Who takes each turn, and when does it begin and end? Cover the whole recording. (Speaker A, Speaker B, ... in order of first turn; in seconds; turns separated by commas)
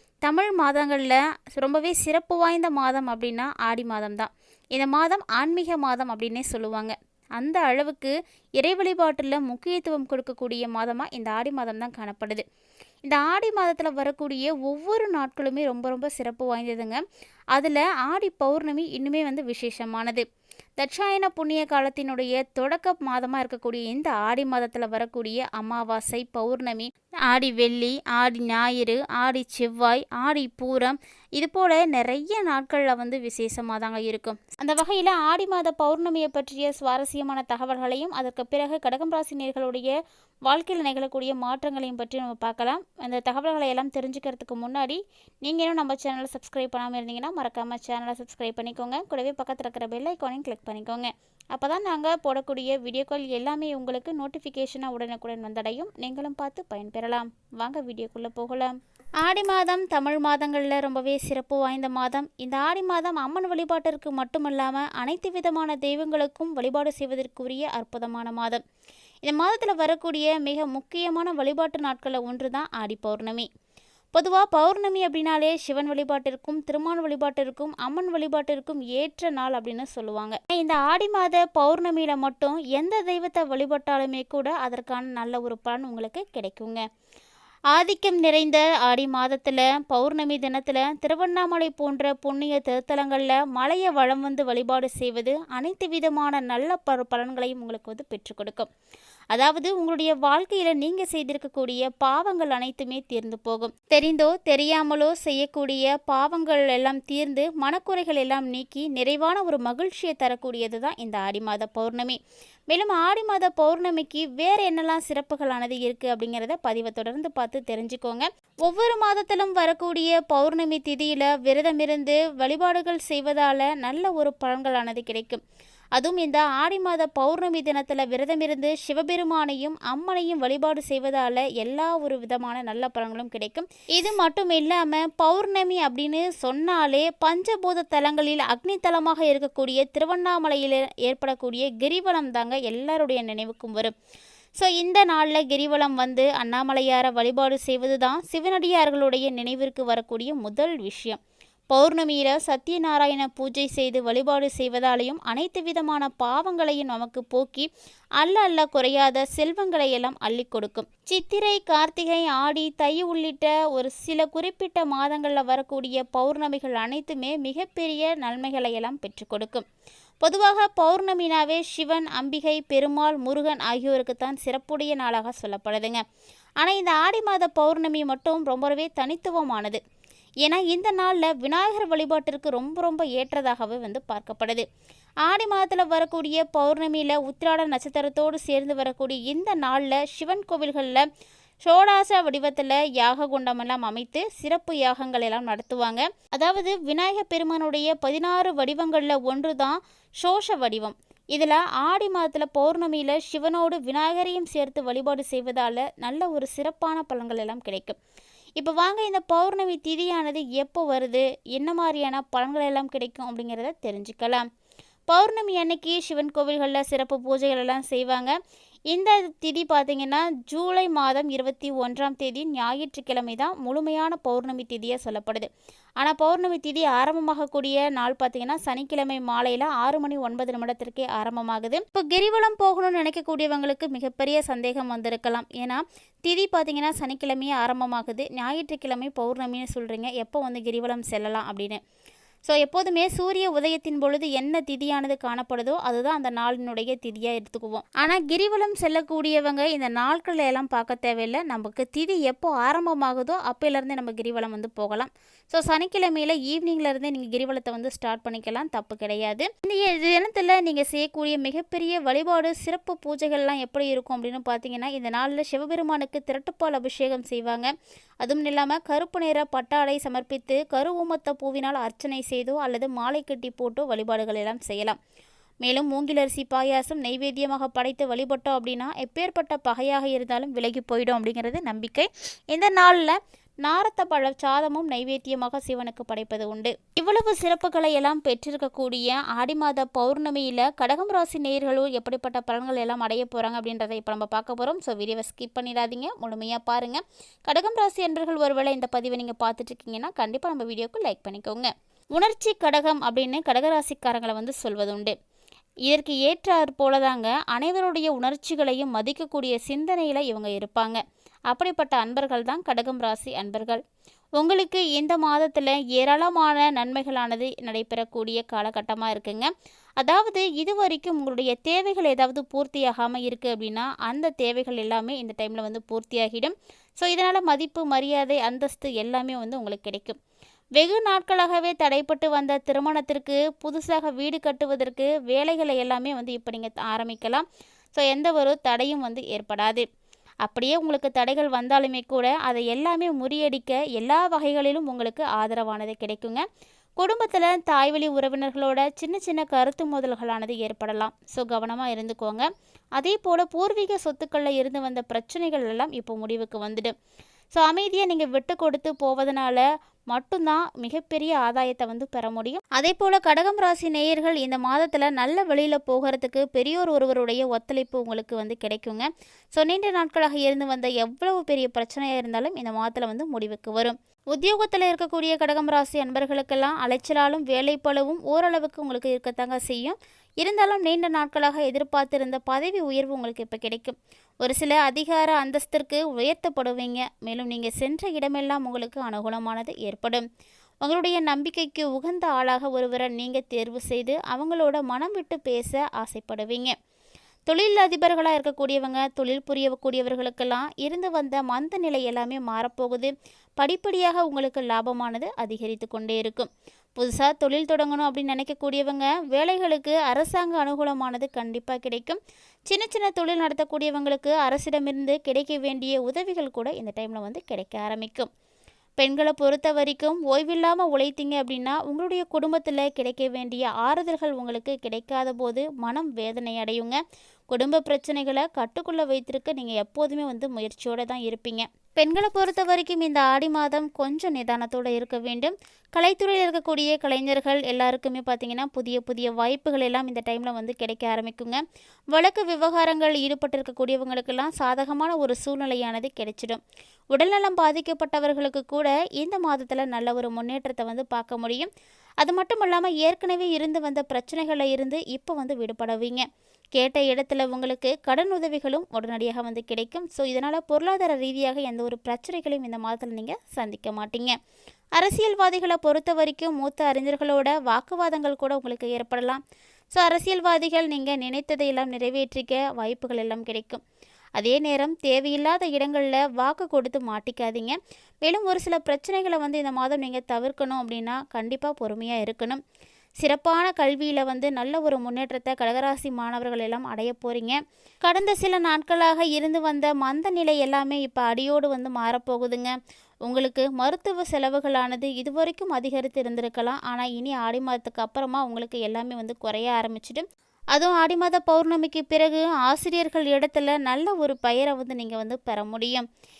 Speaker A: 0.2-12.4, Speaker A: 13.0-17.0, Speaker A: 17.5-20.2, Speaker A: 20.8-39.9, Speaker A: 40.5-68.6, Speaker A: 69.2-73.5, Speaker A: 74.1-86.8, Speaker A: 87.7-98.7, Speaker A: 99.3-112.2, Speaker A: 112.7-125.4, Speaker A: 126.0-143.9, Speaker A: 144.6-151.2, Speaker A: 151.7-157.7, Speaker A: 158.2-169.6, Speaker A: 170.2-176.0, Speaker A: 176.6-179.8, Speaker A: 180.4-184.6, Speaker A: 185.2-191.0, Speaker A: 191.6-208.0, Speaker A: 208.6-214.4, Speaker A: 215.1-218.3, Speaker A: 218.9-225.5, Speaker A: 226.0-241.8, Speaker A: 242.5-274.9, Speaker A: 275.6-305.1, Speaker A: 305.9-313.8, Speaker A: 314.4-330.2, Speaker A: 330.8-339.8, Speaker A: 340.4-346.4, Speaker A: 347.0-356.9, Speaker A: 357.5-390.2, Speaker A: 390.8-396.7, Speaker A: 397.5-418.3, Speaker A: 419.0-441.6, Speaker A: 442.1-446.6, Speaker A: 447.1-464.3, Speaker A: 465.0-469.4, Speaker A: 469.9-473.8, Speaker A: 474.4-482.6, Speaker A: 483.2-492.7, Speaker A: 493.2-506.1